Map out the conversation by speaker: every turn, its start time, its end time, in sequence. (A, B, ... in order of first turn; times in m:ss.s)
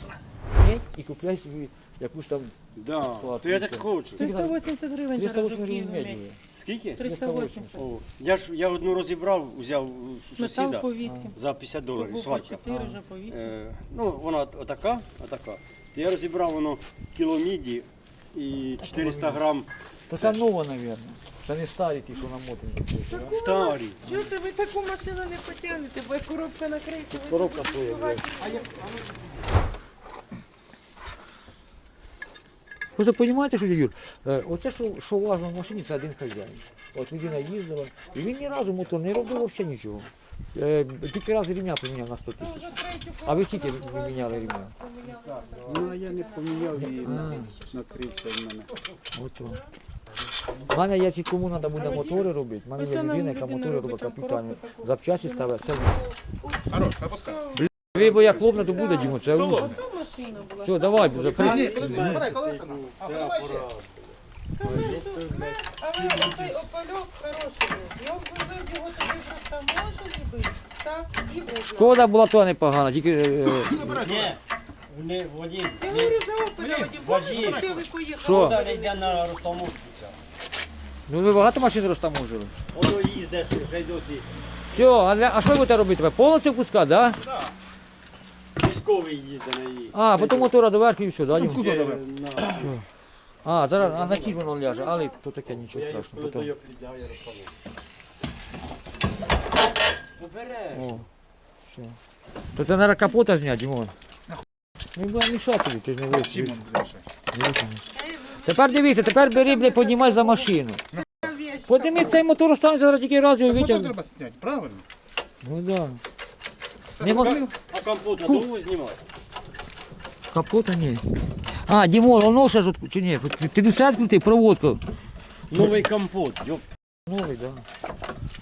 0:00.6-0:02.6 A
0:02.8-0:04.2 B
0:03.1-0:04.6 A
0:04.2-0:06.2 C
0:05.1-0:06.4 A
0:06.6-0:07.0 B
0:07.0-0:07.8 C
0:07.0-0:07.8 A
0:07.7-0:12.7 B
0:10.4-0:11.4 C
0:11.0-0:11.3 A
0:11.9-0:13.6 C
0:12.7-0:13.0 A
0:13.3-0:20.4 B
0:18.8-0:19.4 A
0:20.1-0:23.3 A
0:23.1-0:28.7 C
0:23.1-0:24.2 B
0:27.1-0:28.2 A
0:28.4-0:29.4 B
0:33.0-0:42.7 A
0:42.4-0:48.2 C
0:43.2-0:44.7 A
0:45.5-0:48.7 D
0:46.8-0:47.5 A
0:49.1-0:49.6 A
0:50.7-0:56.0 A
0:51.8-0:52.2 C
0:52.8-0:56.7 C
0:56.7-0:57.5 E
0:57.3-1:02.1 C
0:57.6-0:59.7 A
0:59.2-0:59.8 E
1:00.6-1:02.2 A
1:01.3-1:03.7 E
1:01.3-1:04.0 B
1:04.6-1:12.0 C
1:04.6-1:06.6 B
1:11.6-1:13.9 A
1:13.6-1:14.4 E
1:13.9-1:20.2 B
1:15.8-1:19.2 C
1:17.1-1:17.9 E
1:18.2-1:18.6 A
1:21.1-1:22.5 A
1:22.7-1:24.9 B
1:24.7-1:27.2 A
1:28.6-1:30.5 B
1:29.9-1:31.7 A
1:31.4-1:32.7 E
1:31.4-1:32.7 B
1:32.6-1:32.8 A
1:33.4-1:36.5 A
1:33.8-1:34.5 B
1:35.6-1:37.6 B
1:40.2-1:41.0 B
1:40.7-1:41.1 A
1:41.7-1:42.0 A
1:42.6-1:43.9 A
1:45.0-1:46.6 A
1:46.1-1:47.1 E
1:47.3-1:47.9 A
1:48.0-1:52.2 C
1:48.4-1:50.8 A
1:51.7-1:54.0 A
1:53.5-1:54.8 E
1:55.4-1:56.0 A
1:57.0-1:57.5 E
1:57.0-1:57.4 A
1:57.0-1:59.0 B
2:00.3-2:01.0 A
2:01.6-2:04.8 A
2:05.5-2:06.6 B
2:05.5-2:05.8 A
2:07.1-2:07.6 A